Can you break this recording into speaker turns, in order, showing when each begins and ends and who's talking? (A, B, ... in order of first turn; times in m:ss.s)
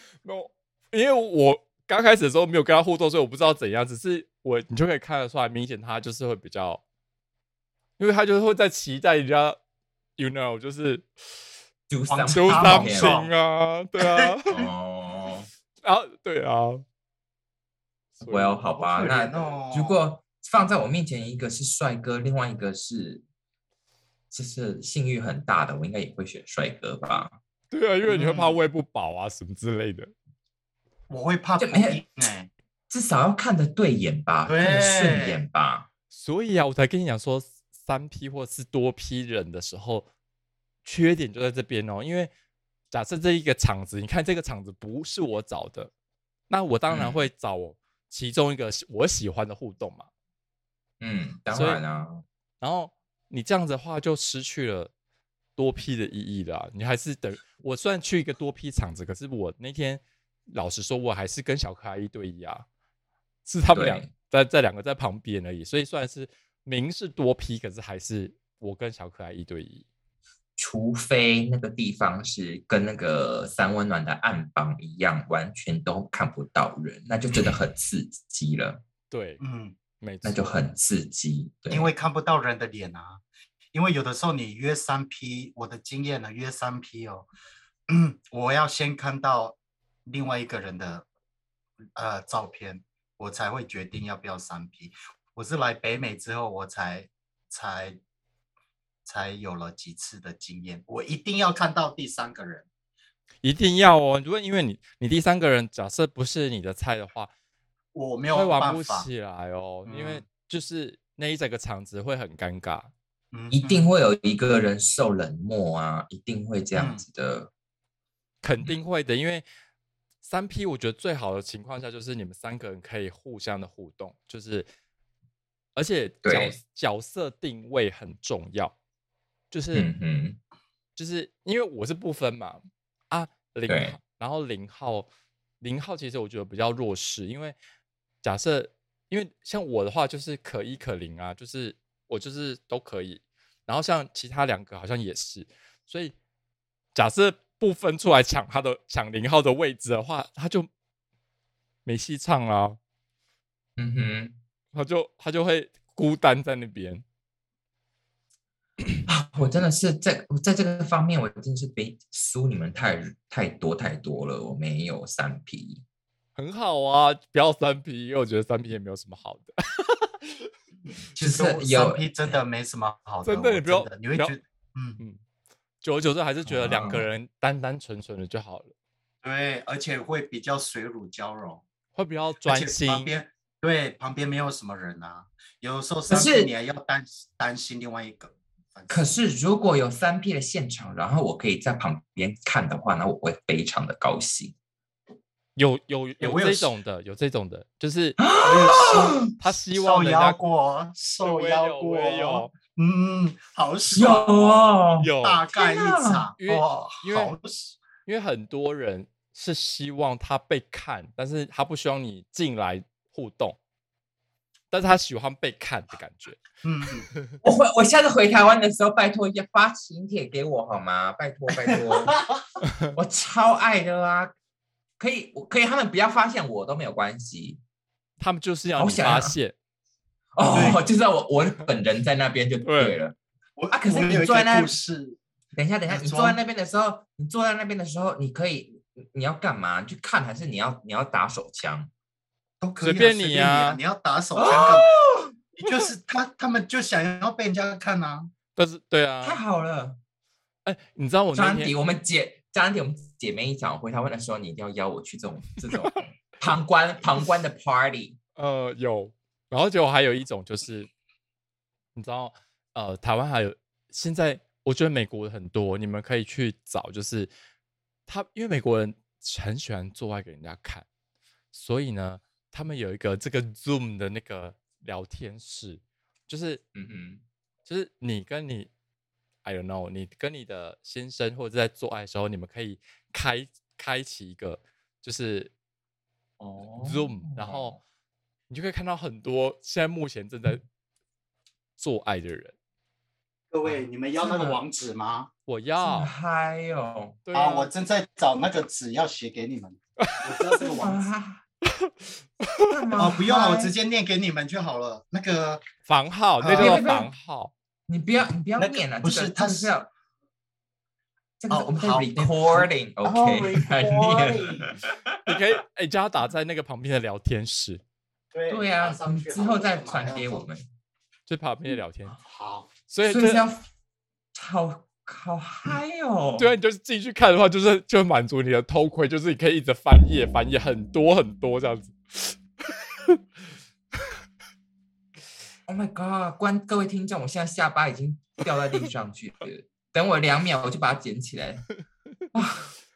0:00.2-0:06.8 A
0:08.0-0:09.6 A
0:10.2-0:11.1 A
0:11.9-0:13.2 B
0:12.1-0:13.3 C
0:12.3-0:14.6 A
0:14.0-0:14.4 C
0:14.5-0:15.5 B
0:15.8-0:16.8 A
0:18.2-0:18.6 A
0:18.2-0:23.2 B
0:18.8-0:20.0 C
0:24.3-0:27.3 B
0:27.7-0:30.1 A
0:28.0-0:28.6 C
0:31.1-0:32.5 C
0:31.6-0:32.0 B
0:32.9-0:35.9 B
0:34.5-0:35.4 C
0:36.1-0:40.1 A
0:40.8-0:42.3 A
0:42.9-0:45.9 A
0:46.5-0:50.1 A
0:46.9-0:47.3 B
0:51.0-0:52.2 B
0:51.5-0:51.8 A
0:52.6-0:54.9 A
0:55.6-1:02.6 A
1:03.4-1:09.8 A
1:03.7-1:04.1 B
1:10.6-1:18.8 B
1:19.1-1:19.4 A
1:19.4-1:19.8 C
1:20.0-1:20.5 A
1:20.2-1:21.9 B
1:21.7-1:23.2 C
1:23.7-1:27.3 C
1:27.9-1:31.0 C
1:32.0-1:38.0 C
1:39.0-1:42.7 C
1:43.4-1:47.3 A
1:47.9-1:49.1 C
1:48.3-1:52.9 A
1:49.8-1:50.2 C
1:53.3-1:53.9 C
1:53.5-1:57.5 B
1:56.7-1:57.0 C
1:58.4-1:59.4 A
2:00.2-2:04.7 A
2:05.7-2:08.7 A
2:06.2-2:06.6 B
2:09.5-2:09.9 A
2:09.7-2:10.4 B
2:11.0-2:15.1 A
2:13.7-2:14.0 B
2:15.6-2:17.6 A
2:18.2-2:26.1 A
2:26.9-2:30.7 A
2:31.8-2:32.8 A
2:33.8-2:34.4 B
2:34.7-2:37.0 A
2:39.0-2:45.8 B
2:46.4-2:50.5 A
2:51.1-2:55.0 C
2:51.2-2:52.3 B
2:53.2-2:54.4 A
2:55.8-2:58.7 A
2:56.4-2:57.1 B
2:59.2-3:01.6 C
3:01.9-3:03.1 A
3:02.4-3:09.1 C
3:06.1-3:06.5 B
3:08.9-3:14.5 B
3:15.6-3:18.2 A
3:16.2-3:16.7 C
3:18.2-3:19.3 B
3:18.4-3:27.8 C
3:19.4-3:20.4 A
3:21.2-3:22.5 A
3:23.9-3:26.2 B
3:25.0-3:25.4 A
3:26.4-3:27.3 A
3:28.0-3:33.6 A
3:34.7-3:36.4 A
3:36.6-3:37.1 C
3:37.4-3:42.2 B
3:41.6-3:42.4 C
3:42.6-3:42.9 A
3:42.9-3:44.3 B
3:45.0-3:47.6 B
3:48.2-3:49.5 A
3:48.8-3:49.4 B
3:50.3-3:53.2 B
3:50.5-3:50.8 C
3:52.6-3:53.0 A
3:53.6-3:55.2 C
3:53.7-3:54.7 B
3:55.5-4:01.9 B
3:55.9-3:56.4 C
4:02.6-4:04.9 C
4:02.8-4:03.8 A
4:04.4-4:05.3 B
4:05.5-4:08.3 C
4:08.5-4:09.4 A
4:09.2-4:10.0 B
4:10.6-4:11.7 A
4:11.3-4:18.2 B
4:18.4-4:20.9 A
4:21.9-4:27.3 A
4:28.1-4:30.8 A
4:31.5-4:36.6 A
4:36.7-4:37.2 B
4:37.6-4:38.7 A
4:39.4-4:45.5 A
4:46.4-4:47.8 B
4:46.8-4:47.8 A
4:48.5-4:50.6 A
4:51.8-4:52.5 A
4:53.5-4:55.3 C
4:53.7-4:54.6 B
4:55.5-4:56.1 A
4:55.8-4:57.2 B
4:57.2-4:57.7 A
4:57.3-5:01.0 C
5:00.6-5:01.4 B
5:01.8-5:02.7 A
5:02.7-5:03.7 B
5:03.0-5:05.6 C
5:05.8-5:07.5 A
5:06.4-5:06.9 C
5:06.6-5:07.1 B
5:07.9-5:09.9 B
5:08.6-5:09.7 C
5:11.4-5:15.4 B
5:11.5-5:14.7 C
5:15.2-5:17.8 A
5:18.3-5:20.4 C
5:18.5-5:20.6 B
5:21.3-5:22.2 A
5:22.1-5:22.7 C
5:22.9-5:23.4 A
5:23.0-5:23.7 B
5:24.3-5:26.5 B
5:26.4-5:32.3 A
5:35.7-5:41.6 B
5:42.3-5:42.7 B